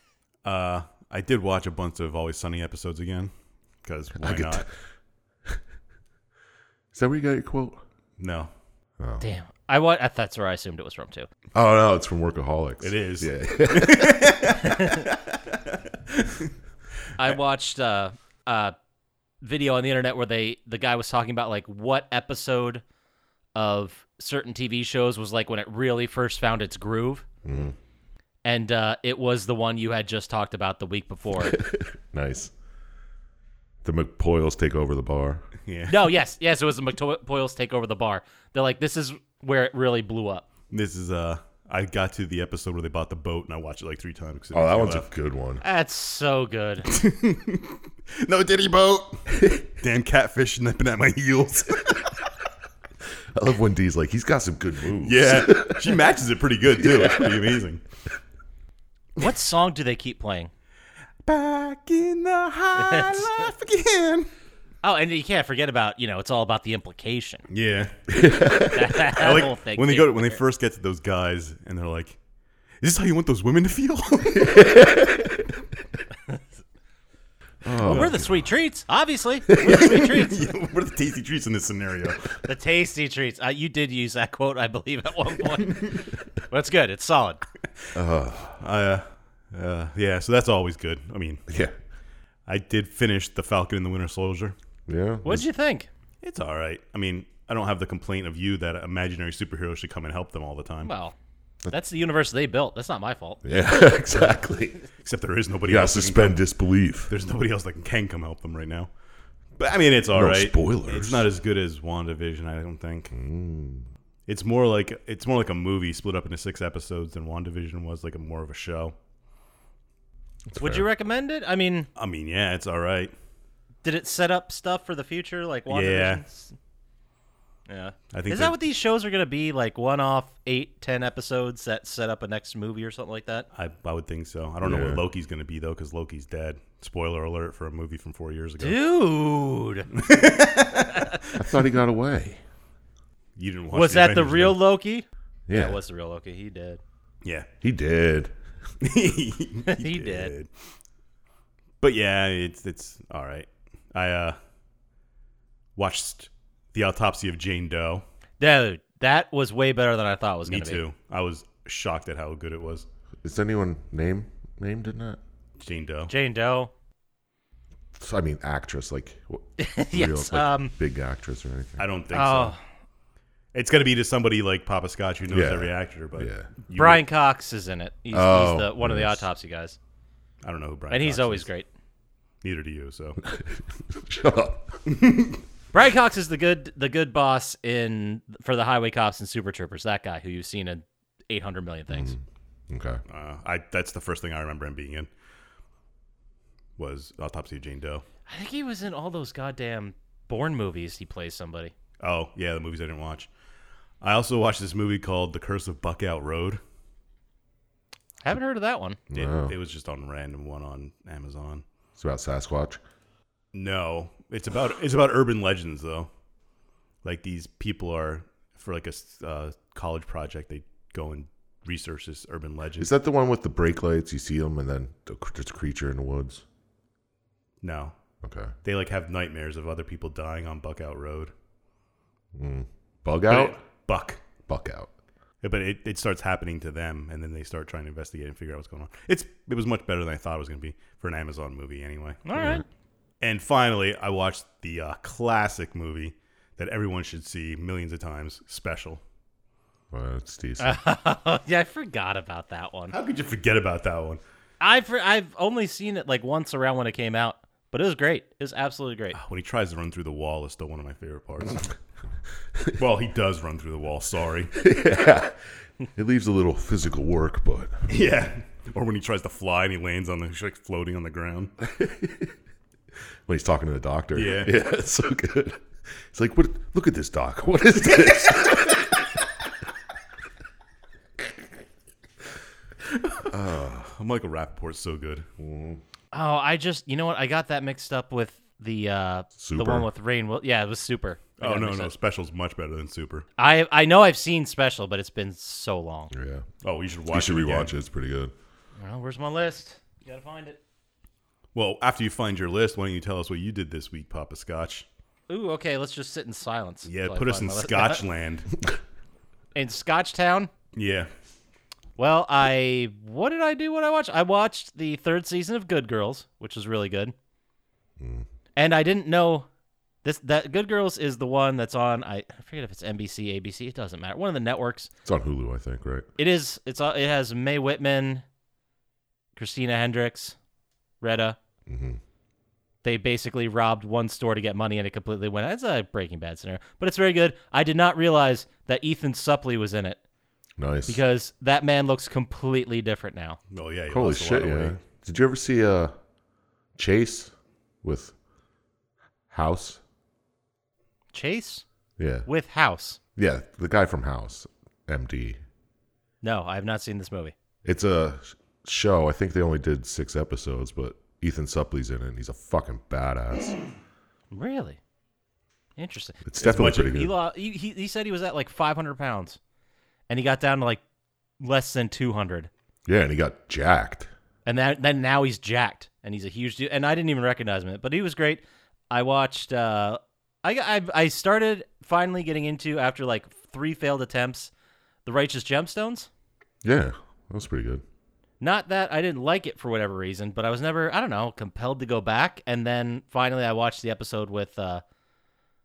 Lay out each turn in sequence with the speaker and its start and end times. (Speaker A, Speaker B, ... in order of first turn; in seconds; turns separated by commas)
Speaker A: 0.4-3.3, Speaker A: 3.8-4.7, Speaker B: 4.2-4.7, Speaker B: 6.9-7.8, Speaker A: 8.2-8.5, Speaker B: 9.0-9.2, Speaker C: 9.2-11.3, Speaker B: 11.5-14.5, Speaker A: 12.8-16.5, Speaker C: 17.2-18.7, Speaker C: 19.4-22.8, Speaker C: 23.5-27.2, Speaker B: 27.4-27.7, Speaker C: 28.4-31.6, Speaker B: 31.4-32.5, Speaker B: 33.8-35.4, Speaker A: 35.6-36.1, Speaker C: 35.9-40.5, Speaker A: 40.7-45.1, Speaker B: 44.5-45.6, Speaker C: 45.6-46.9, Speaker A: 46.9-52.2, Speaker B: 53.3-56.0, Speaker A: 55.0-57.8, Speaker B: 56.8-57.4, Speaker C: 59.2-60.5, Speaker A: 61.2-64.3, Speaker C: 62.8-63.3, Speaker C: 64.8-67.5, Speaker A: 67.5-67.9, Speaker B: 68.1-69.0, Speaker C: 68.6-70.4, Speaker A: 69.1-72.2, Speaker A: 72.8-74.8, Speaker B: 74.4-75.5, Speaker B: 77.6-78.5, Speaker A: 77.8-78.1, Speaker C: 77.8-80.5, Speaker A: 79.6-82.2, Speaker C: 82.4-87.4, Speaker A: 85.6-86.0, Speaker B: 87.9-88.6, Speaker A: 88.6-91.5, Speaker B: 91.5-91.7, Speaker A: 92.5-94.5, Speaker B: 94.9-95.5, Speaker C: 95.2-95.9, Speaker A: 96.2-100.9, Speaker C: 100.8-101.1, Speaker C: 101.7-103.4, Speaker B: 103.4-104.8, Speaker A: 105.0-106.4, Speaker B: 105.7-107.1, Speaker A: 107.1-108.9, Speaker A: 109.6-113.1, Speaker B: 110.1-111.3, Speaker B: 113.1-113.9, Speaker A: 114.3-118.9, Speaker B: 120.5-120.9, Speaker C: 120.5-121.9, Speaker A: 122.0-123.1, Speaker C: 123.8-126.5, Speaker A: 125.7-126.2, Speaker C: 127.7-133.5, Speaker A: 128.1-128.6, Speaker A: 133.5-138.8, Speaker B: 134.6-135.0, Speaker C: 138.6-139.9, Speaker A: 139.9-141.4, Speaker B: 141.3-142.4, Speaker A: 143.3-144.6, Speaker C: 143.7-146.8, Speaker B: 145.5-145.8, Speaker A: 147.2-147.5, Speaker B: 147.6-148.3, Speaker A: 148.8-150.5, Speaker C: 149.7-150.3, Speaker A: 151.8-154.4, Speaker A: 155.8-158.0, Speaker C: 158.4-160.8, Speaker A: 160.4-162.8, Speaker B: 163.2-165.2, Speaker A: 165.6-166.1, Speaker C: 166.1-166.7, Speaker B: 167.9-171.8, Speaker C: 169.6-170.7, Speaker A: 171.8-172.5, Speaker C: 172.1-172.6, Speaker A: 173.5-177.0, Speaker B: 175.3-176.5, Speaker C: 176.7-179.8, Speaker B: 178.1-179.2, Speaker A: 180.4-181.5, Speaker C: 180.9-181.7, Speaker A: 182.4-183.2, Speaker B: 183.2-184.8, Speaker A: 184.9-185.4, Speaker C: 185.7-192.1, Speaker B: 191.9-193.0, Speaker A: 193.1-195.1, Speaker A: 196.8-198.0, Speaker C: 198.3-201.7, Speaker A: 202.0-203.3, Speaker A: 204.0-206.6, Speaker C: 208.2-209.0, Speaker B: 209.1-209.5, Speaker A: 209.1-211.6, Speaker B: 212.0-212.8, Speaker A: 213.5-216.1, Speaker A: 217.0-222.9, Speaker B: 222.8-226.4, Speaker A: 227.6-227.9, Speaker B: 228.2-228.5, Speaker A: 228.6-231.3, Speaker B: 232.3-233.6, Speaker A: 233.2-234.2, Speaker B: 234.5-234.9, Speaker A: 235.4-242.2, Speaker C: 242.2-242.6, Speaker B: 242.3-242.6, Speaker A: 243.2-249.0, Speaker B: 249.9-250.8, Speaker C: 250.6-252.9, Speaker A: 252.9-254.2, Speaker C: 254.6-259.2, Speaker A: 259.1-261.7, Speaker A: 262.8-264.5, Speaker B: 264.5-265.4, Speaker B: 265.9-267.7, Speaker A: 267.9-271.5, Speaker B: 271.6-272.3, Speaker B: 273.2-279.1, Speaker A: 274.1-274.5, Speaker B: 283.2-283.9, Speaker A: 283.9-285.3, Speaker B: 285.4-285.8, Speaker C: 286.1-291.9, Speaker B: 289.4-289.9, Speaker A: 291.4-293.2, Speaker C: 293.4-296.1, Speaker B: 296.1-296.4, Speaker A: 296.6-297.7, Speaker B: 297.1-298.3, Speaker C: 298.8-300.6, Speaker A: 301.5-304.9, Speaker C: 305.3-308.0, Speaker A: 306.9-308.5, Speaker C: 309.5-310.5, Speaker A: 310.7-311.1, Speaker C: 312.0-317.1, Speaker B: 318.0-318.3, Speaker C: 318.6-319.5, Speaker C: 320.0-324.9, Speaker B: 325.0-326.1, Speaker C: 326.2-328.2, Speaker C: 329.4-330.4, Speaker C: 331.0-331.4, Speaker B: 331.7-332.0, Speaker C: 332.8-340.0, Speaker B: 340.6-341.0, Speaker C: 340.9-343.4, Speaker A: 343.5-344.8, Speaker B: 343.9-345.9, Speaker B: 346.8-348.1, Speaker B: 349.3-349.8, Speaker C: 351.1-351.6, Speaker B: 352.0-352.3, Speaker C: 352.2-353.0, Speaker B: 353.1-355.4, Speaker C: 356.2-357.3, Speaker B: 357.6-363.6, Speaker C: 364.3-364.8, Speaker C: 365.8-369.4, Speaker B: 366.2-367.1, Speaker A: 366.4-367.0, Speaker C: 370.1-370.8, Speaker C: 371.4-372.5, Speaker B: 372.9-374.1, Speaker C: 374.4-384.5, Speaker C: 385.1-386.1, Speaker B: 386.6-387.8, Speaker C: 388.4-394.8